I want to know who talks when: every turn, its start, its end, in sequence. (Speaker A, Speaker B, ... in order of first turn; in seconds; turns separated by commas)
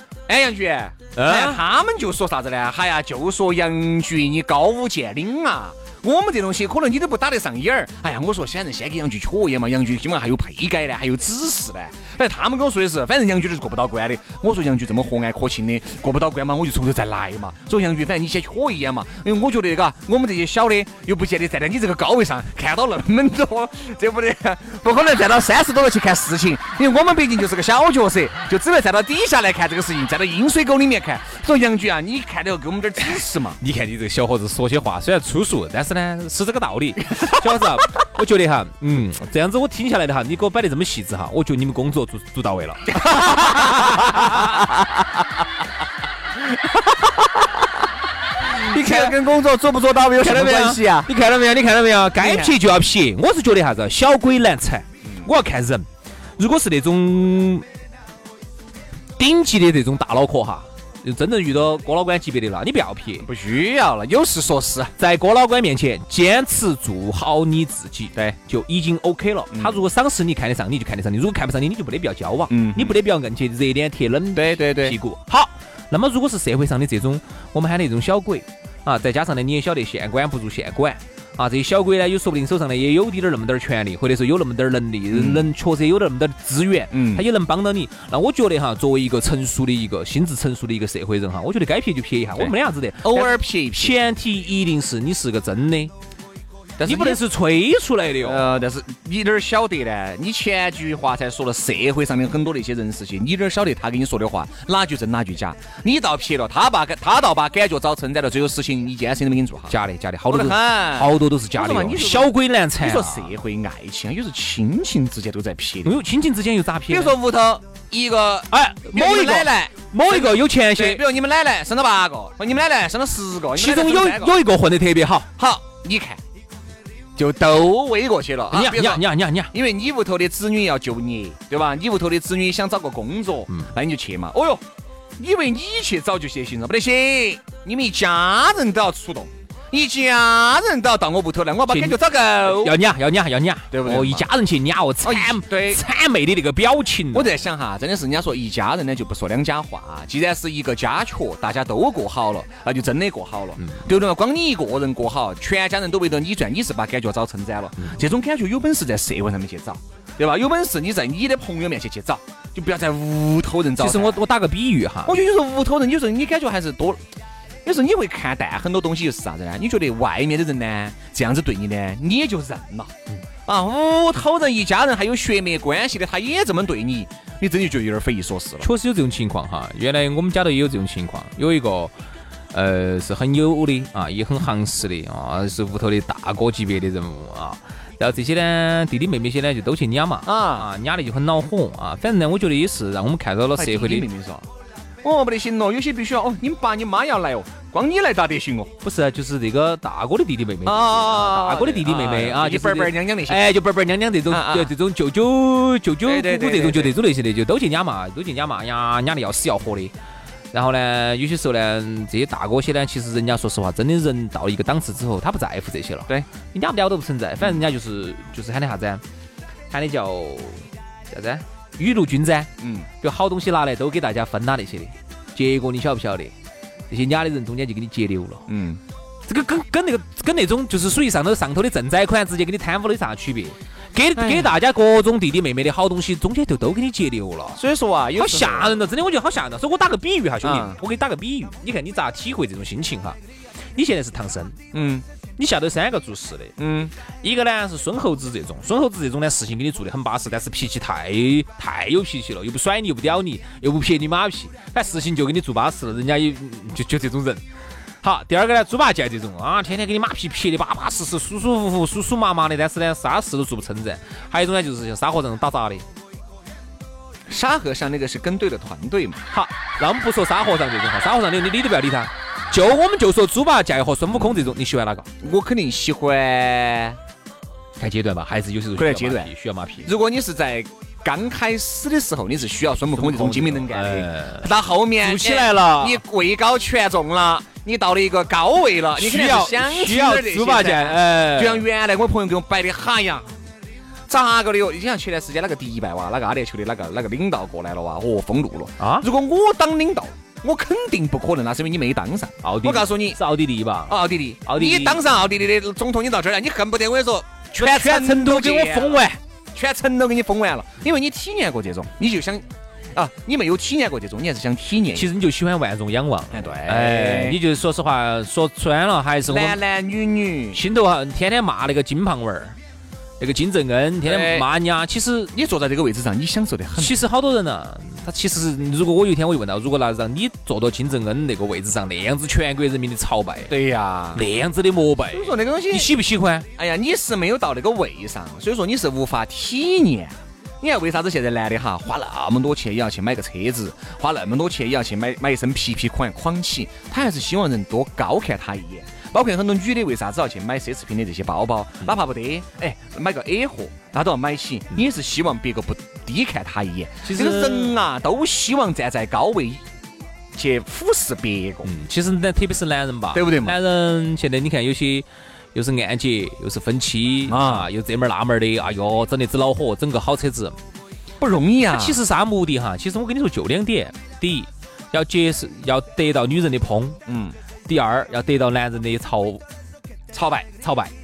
Speaker A: 0.3-33.6, Speaker B: 1.1-1.6, Speaker B: 33.6-44.6, Speaker A: 43.1-44.6, Speaker A: 46.7-47.7, Speaker A: 48.5-51.1, Speaker B: 48.6-49.2, Speaker B: 50.2-55.9, Speaker A: 52.2-52.5, Speaker A: 55.0-55.3, Speaker B: 56.4-57.6, Speaker B: 59.2-63.3, Speaker A: 63.2-64.9, Speaker B: 65.0-95.9, Speaker A: 69.5-69.8, Speaker A: 72.5-73.0, Speaker A: 74.3-75.0, Speaker A: 85.1-85.5, Speaker A: 86.9-87.2, Speaker A: 92.3-94.0, Speaker A: 96.8-97.2, Speaker B: 96.8-98.6, Speaker A: 98.2-109.8, Speaker B: 109.7-113.3, Speaker A: 110.3-116.0, Speaker B: 115.8-117.2, Speaker A: 116.9-124.3, Speaker B: 118.5-121.0, Speaker B: 123.5-125.3, Speaker A: 125.4-126.2, Speaker A: 127.2-134.6, Speaker B: 128.5-129.5, Speaker A: 135.2-142.8, Speaker B: 141.7-147.3, Speaker A: 143.7-144.3, Speaker A: 145.0-145.8, Speaker A: 147.1-164.2, Speaker B: 163.8-165.2, Speaker A: 165.0-167.0, Speaker A: 167.6-172.9, Speaker A: 173.4-178.7, Speaker B: 178.6-181.9, Speaker B: 182.5-194.1, Speaker A: 190.2-190.7, Speaker A: 193.5-194.5, Speaker A: 195.0-198.7, Speaker B: 198.8-209.9, Speaker A: 200.6-203.5, Speaker A: 204.3-204.7, Speaker A: 206.0-206.9, Speaker B: 210.5-219.0, Speaker B: 219.7-222.5, Speaker A: 222.6-222.9, Speaker B: 223.0-226.3, Speaker B: 226.9-228.4, Speaker A: 228.5-228.8, Speaker B: 229.3-237.6, Speaker A: 234.2-234.5, Speaker A: 237.6-238.8, Speaker B: 238.2-243.2, Speaker A: 240.4-240.8, Speaker B: 243.7-244.6, Speaker A: 244.7-245.0, Speaker B: 245.4-246.6, Speaker A: 246.6-246.9, Speaker B: 247.2-257.4, Speaker B: 258.0-265.9, Speaker A: 267.3-269.2, Speaker B: 269.3-275.1, Speaker A: 274.1-274.5, Speaker A: 275.2-277.0, Speaker B: 277.8-279.9, Speaker A: 278.8-279.3, Speaker A: 279.8-293.3, Speaker B: 282.9-286.0, Speaker B: 289.0-291.6, Speaker A: 294.1-303.2, Speaker B: 298.8-299.1, Speaker B: 302.4-305.0, Speaker A: 303.9-315.1, Speaker B: 307.6-309.2, Speaker B: 314.9-319.6, Speaker A: 316.3-317.4, Speaker A: 319.3-320.6, Speaker B: 320.5-322.6, Speaker B: 323.2-325.3, Speaker A: 324.0-324.5, Speaker A: 325.3-327.0, Speaker B: 326.8-333.5, Speaker A: 333.5-334.2, Speaker B: 334.1-336.5, Speaker A: 335.1-335.9, Speaker A: 336.6-359.6, Speaker B: 357.0-357.8, Speaker A: 360.3-361.7, Speaker B: 361.6-370.6, Speaker A: 363.1-363.6, Speaker A: 367.3-367.7, Speaker A: 371.2-372.0, Speaker B: 371.7-377.0, Speaker A: 377.1-377.4, Speaker B: 377.6-379.4, Speaker A: 380.1-380.5, Speaker B: 380.6-380.9